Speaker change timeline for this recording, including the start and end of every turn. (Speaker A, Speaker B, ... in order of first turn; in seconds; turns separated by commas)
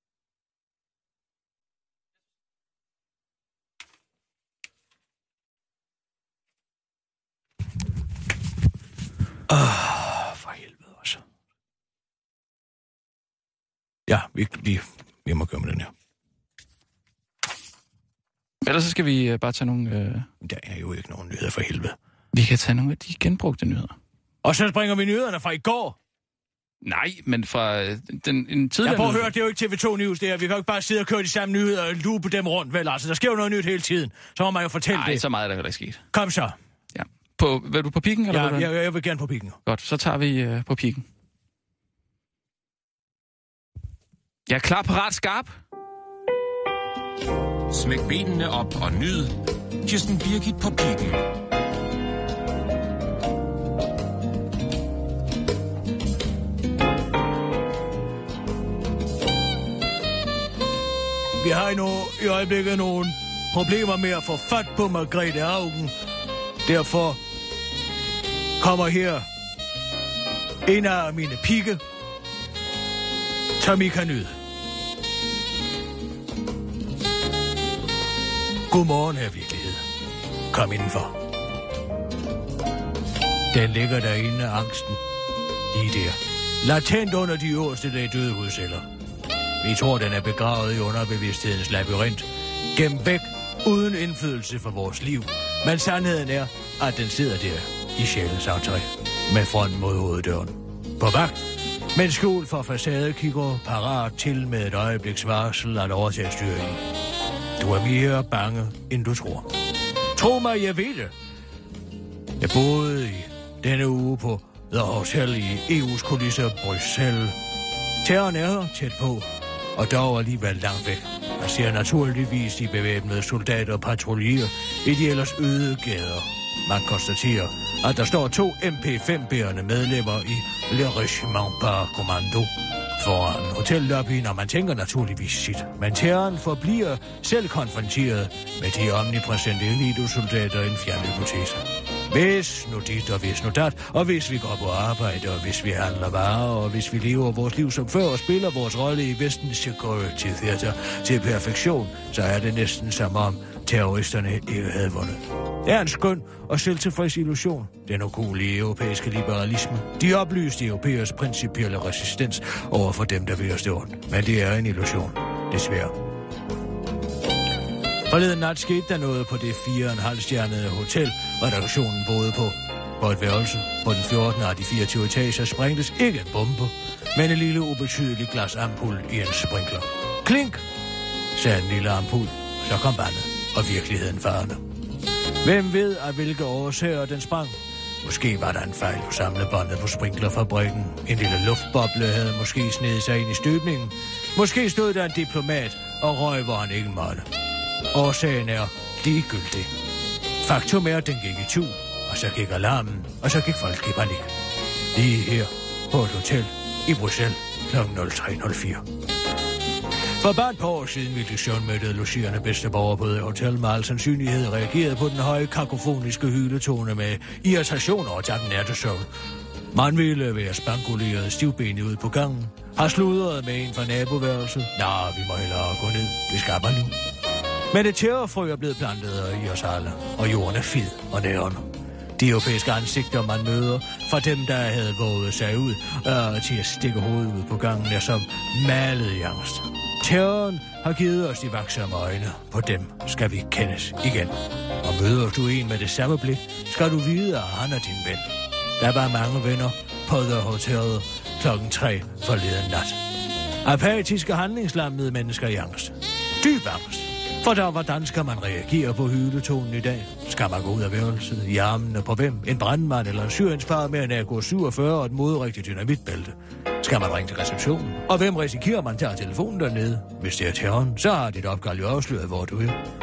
Speaker A: 9.5-11.2, Speaker A: 14.1-15.9, Speaker B: 18.6-20.3, Speaker A: 20.4-22.0, Speaker B: 22.3-24.0, Speaker A: 24.4-26.0, Speaker B: 26.8-29.3, Speaker A: 28.8-35.2, Speaker B: 34.9-36.0, Speaker A: 36.1-36.6, Speaker B: 36.9-38.7, Speaker A: 38.3-39.6, Speaker B: 39.7-41.1, Speaker B: 44.5-45.6, Speaker C: 47.7-51.3, Speaker A: 61.4-65.9, Speaker A: 66.7-67.2, Speaker A: 68.6-69.3, Speaker A: 70.7-71.8, Speaker A: 73.6-74.3, Speaker A: 78.7-79.8, Speaker A: 80.5-81.1, Speaker A: 83.5-85.0, Speaker A: 85.7-88.9, Speaker A: 89.6-101.4, Speaker A: 102.0-106.8, Speaker A: 107.6-109.5, Speaker A: 110.2-111.1, Speaker A: 112.4-117.4, Speaker A: 118.0-165.9, Speaker A: 168.1-180.6, Speaker A: 181.4-184.6, Speaker A: 185.4-197.3, Speaker A: 197.9-199.7, Speaker A: 200.4-204.3, Speaker A: 204.9-208.8, Speaker A: 210.2-219.1, Speaker A: 219.7-226.9, Speaker A: 227.7-248.2, Speaker A: 248.8-253.0, Speaker A: 253.7-272.8